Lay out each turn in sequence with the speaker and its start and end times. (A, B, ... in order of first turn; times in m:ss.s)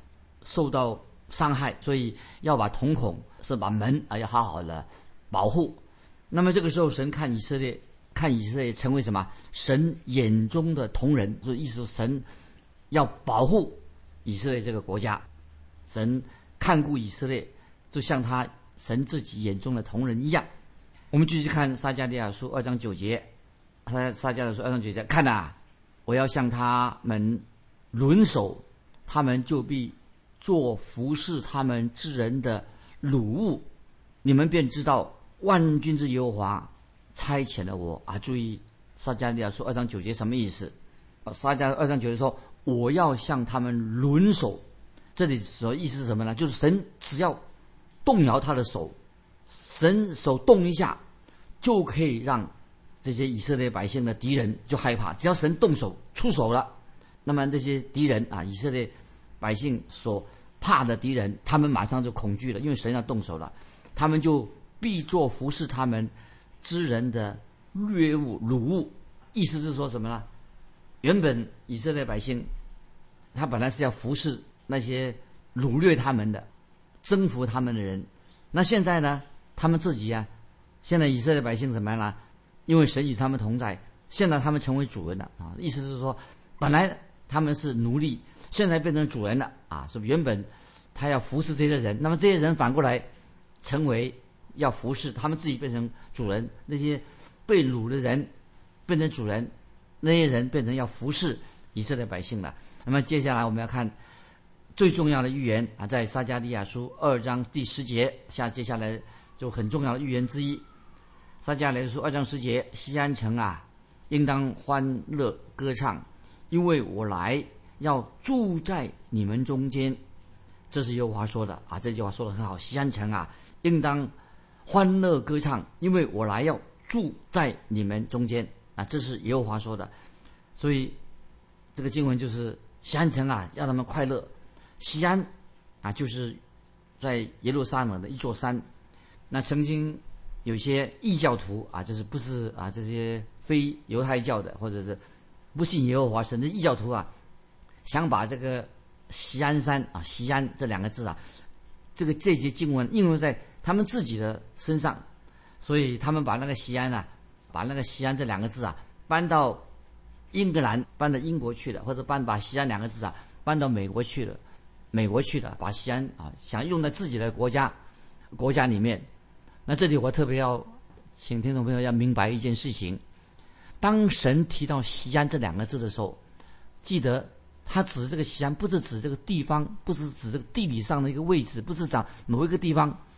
0:00.4-0:12.2 A
0:12.9-0:15.2 A
0:15.9-0:20.5 A
0:21.1-0:23.3 A
0:23.9-0:25.6 A
0:26.1-0:33.6 A
0:34.2-0:40.7 A
0:41.3-0:44.6 A
0:45.2-0:47.4 A
0:48.0-0:49.0 A
0:49.5-0:51.0 A
0:51.6-0:52.5 A
0:53.0-0:56.7 A
0:57.2-1:10.3 A
1:11.0-1:12.5 A
1:13.3-1:16.5 A
1:17.0-1:20.3 A
1:20.8-1:33.1 A
1:33.6-1:38.3 A
1:38.9-1:39.5 A
1:40.0-1:43.9 A
1:44.8-1:50.6 A
1:51.4-2:00.0 A
2:00.7-2:04.1 A
2:04.7-2:09.9 A
2:10.6-2:11.0 A
2:11.8-2:15.3 A
2:15.8-2:16.4 A
2:17.0-2:18.6 A
2:19.3-2:25.0 A
2:25.5-2:27.1 A
2:27.8-2:31.2 A
2:32.0-2:35.0 A
2:35.6-2:39.6 A
2:40.3-2:44.4 A
2:44.9-2:47.7 A
2:48.4-2:49.1 A
2:49.7-2:53.0 A
2:53.8-2:56.2 A
2:56.8-3:03.0 A